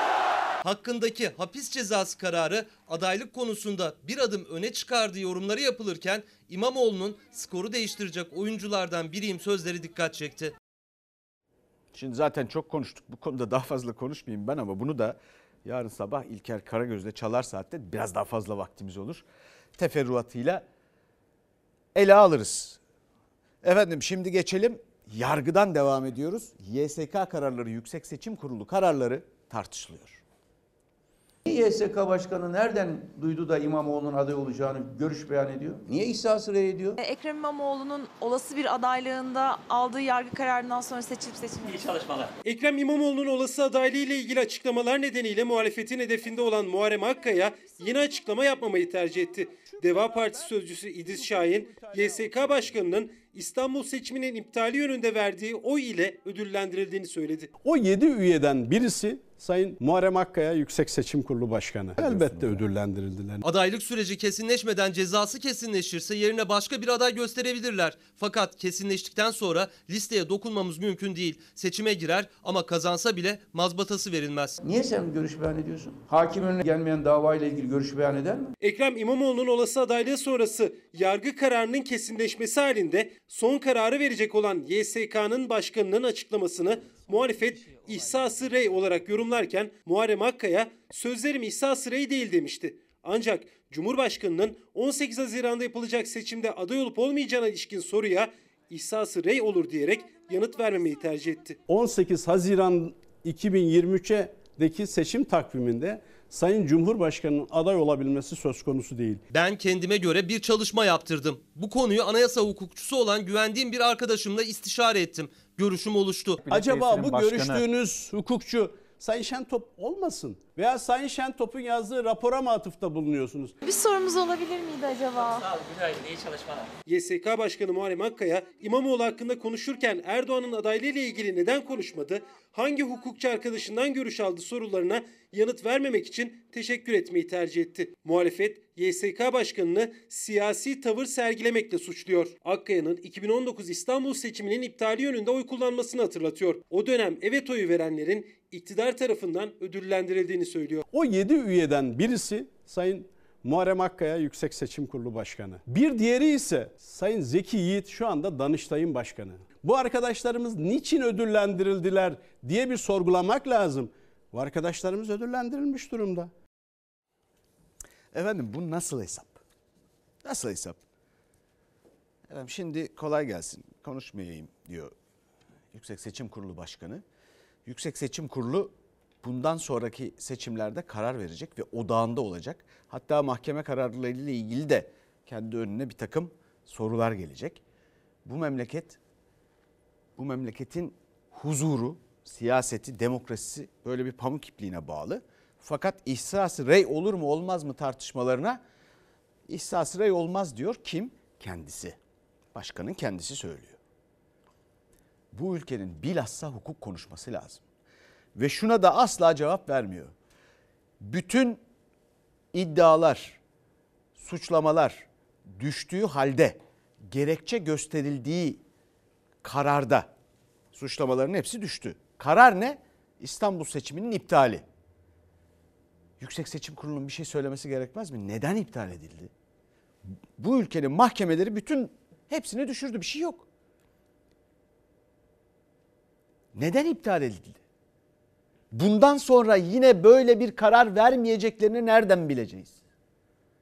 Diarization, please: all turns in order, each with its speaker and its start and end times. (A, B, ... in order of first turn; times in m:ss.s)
0:00.6-0:10.5 A
0:11.9-0:20.6 B
0:21.9-0:22.8 B
0:23.6-0:30.2 B
0:31.4-0:37.0 C
0:37.0-0:41.8 D
0:42.4-0:57.5 E
0:57.6-1:03.4 F
1:02.0-1:02.5 B
1:03.4-1:14.6 A
1:14.6-1:18.5 C
1:18.6-1:41.6 E
1:41.7-1:49.2 F
1:49.3-1:56.4 A
1:56.5-2:03.5 F
2:03.6-2:05.5 D
2:06.8-2:30.8 E
2:30.9-2:46.3 F
2:48.1-2:49.4 B
2:50.2-2:50.8 B
2:52.3-2:54.9 B
2:55.7-2:57.0 B
2:57.6-3:07.6 B
3:08.2-3:09.0 B
3:10.2-3:18.6 B
3:19.5-3:22.0 B
3:22.5-3:23.8 B
3:25.3-3:27.6 B
3:28.3-3:30.1 B
3:31.0-3:31.6 B
3:32.5-3:33.4 B
3:34.2-3:38.6 B
3:39.4-3:40.1 B
3:40.7-3:44.6 B
3:46.2-3:49.3 B
3:50.4-3:53.4 B
3:56.5-3:57.6 B
3:58.7-4:02.8 B